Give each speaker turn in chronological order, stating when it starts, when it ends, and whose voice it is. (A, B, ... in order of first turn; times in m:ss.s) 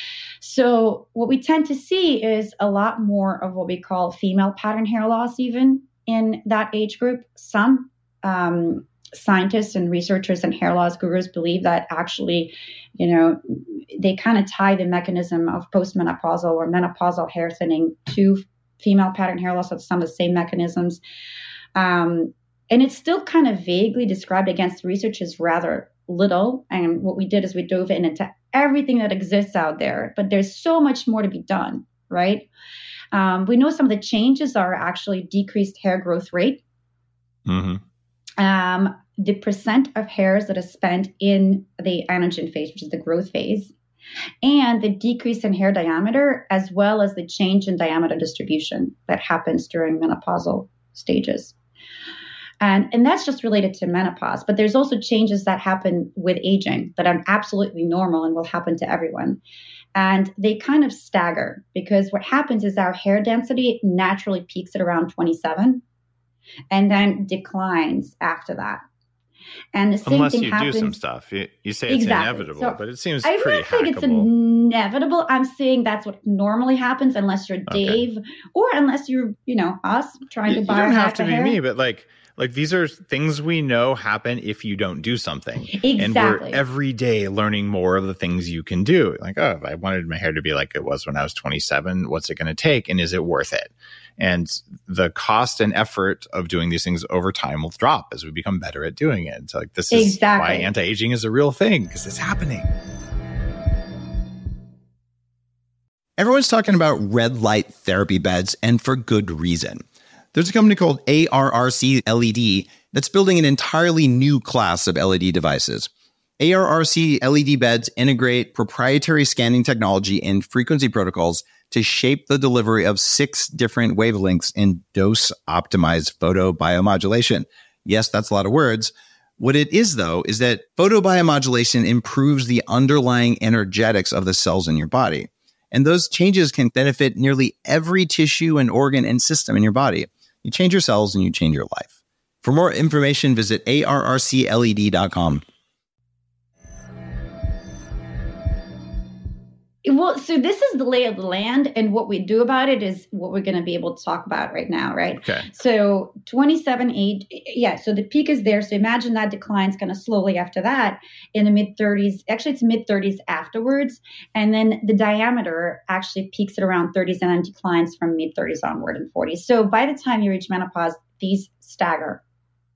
0:00.4-0:21.0 A
0:21.7-0:32.5 A
0:33.1-0:36.6 A
0:37.5-0:37.8 B
0:38.4-0:43.7 A
0:44.4-0:51.5 A
0:52.6-0:59.4 A
0:59.9-1:05.8 A
1:06.7-1:08.8 A
1:09.7-1:11.0 A
1:10.0-1:14.3 B
1:11.9-1:21.6 A
1:17.7-1:18.0 B
1:20.5-1:42.7 B
1:25.7-1:26.6 A
1:39.9-1:40.7 A
1:46.2-2:21.9 C
2:22.4-2:25.4 C
2:29.8-2:52.2 A
2:35.2-2:35.5 B